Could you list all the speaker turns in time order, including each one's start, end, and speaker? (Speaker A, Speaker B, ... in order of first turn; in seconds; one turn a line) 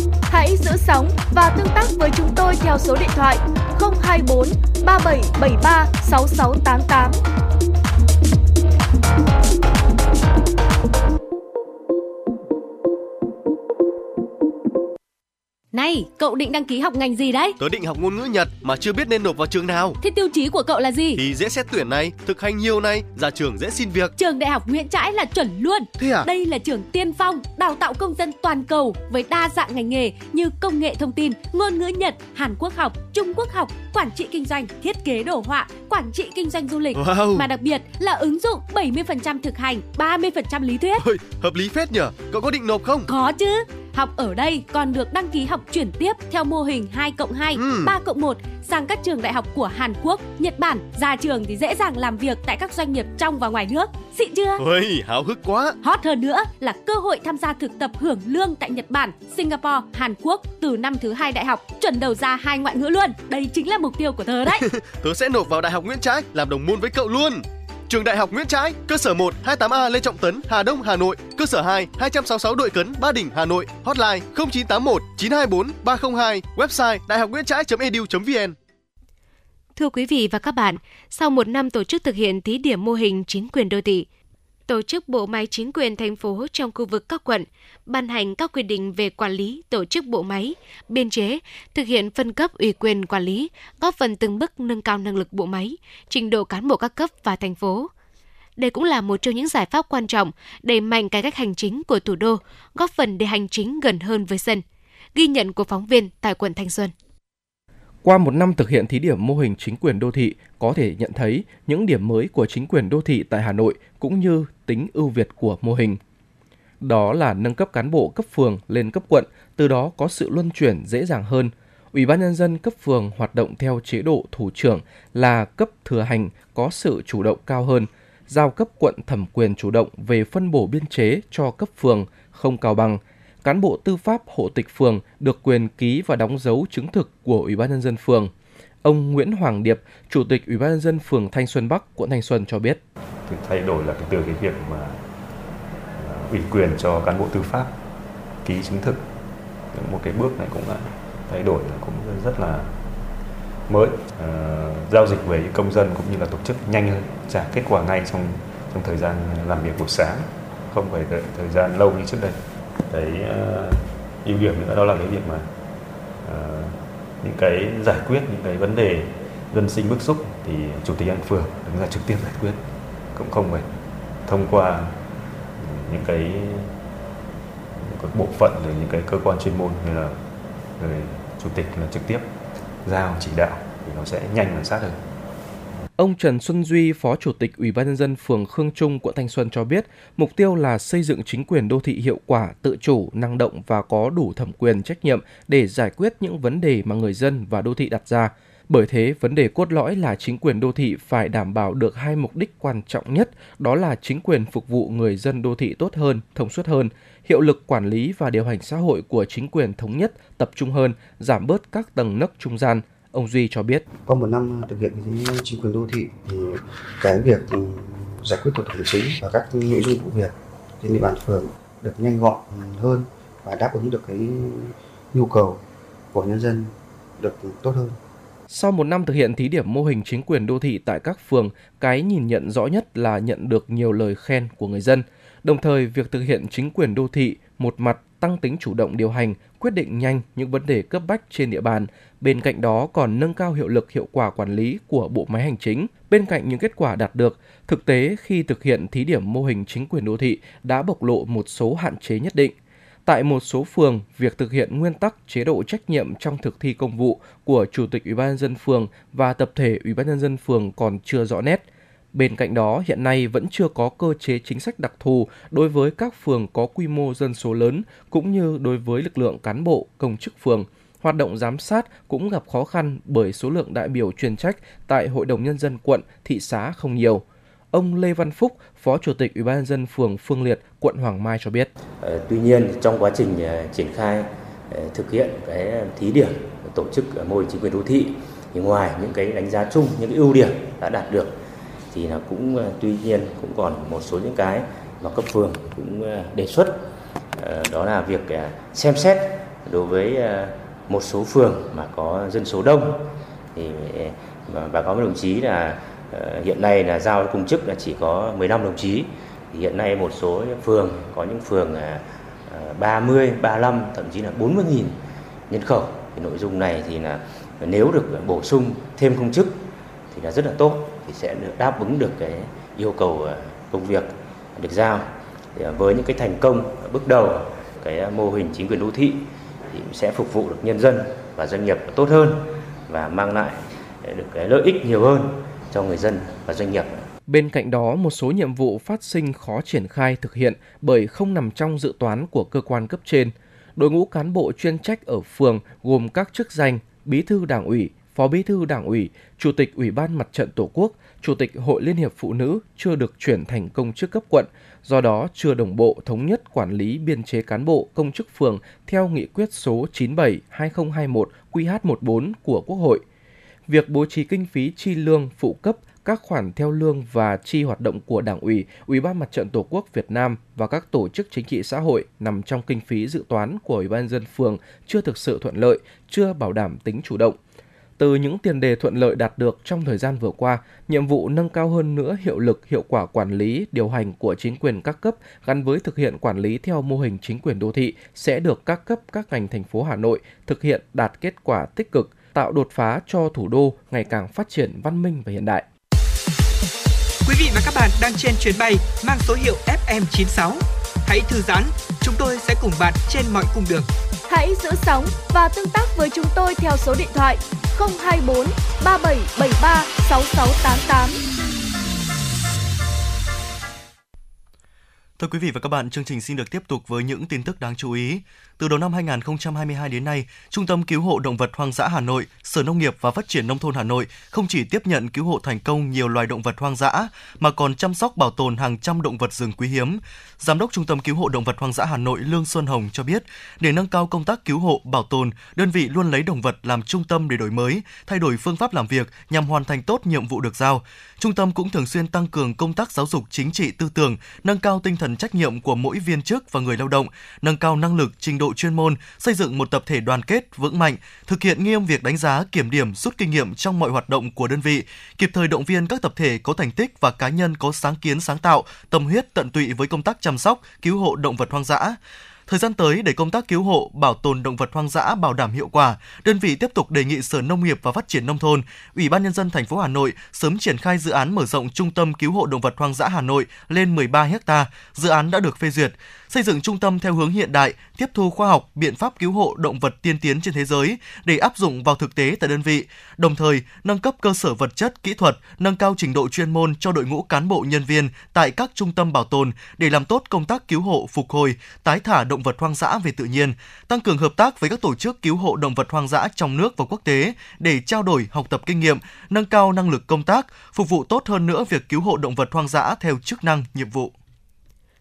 Speaker A: 0.3-7.2
Speaker B: 15.7-17.6
Speaker C: 17.6-20.0
Speaker B: 20.0-21.2
Speaker C: 21.1-24.1
Speaker B: 24.2-41.0
Speaker C: 26.0-26.3
Speaker C: 36.9-37.5
Speaker C: 41.0-43.1
Speaker B: 43.1-54.6
Speaker C: 47.5-47.9
Speaker C: 54.6-55.8
Speaker B: 55.8-64.6
Speaker C: 64.6-78.5
Speaker D: 79.8-84.1
Speaker D: 84.7-97.9
Speaker D: 98.6-104.6
Speaker D: 105.2-106.9
Speaker E: 108.0-116.0
Speaker E: 116.8-138.3
Speaker E: 138.8-142.8
Speaker F: 143.3-145.0
Speaker F: 145.9-147.8
Speaker F: 148.4-149.1
Speaker F: 149.7-152.7
Speaker F: 153.7-165.5
Speaker F: 166.2-173.8
Speaker F: 174.3-175.0
Speaker F: 175.6-176.7
Speaker F: 177.8-180.2
Speaker F: 180.8-182.3
Speaker F: 182.8-185.0
Speaker E: 186.0-213.8
Speaker G: 214.0-225.6
Speaker G: 226.1-228.0
Speaker E: 228.5-252.6
Speaker E: 253.1-281.7
Speaker H: 282.0-291.3
Speaker H: 291.9-296.8
Speaker H: 297.4-303.0
Speaker H: 303.6-315.0
Speaker H: 315.5-337.0
Speaker E: 337.3-363.0
Speaker E: 363.7-377.4
Speaker E: 378.0-395.6
Speaker I: 397.3-403.9
Speaker A: 404.3-411.2
Speaker J: 415.2-504.1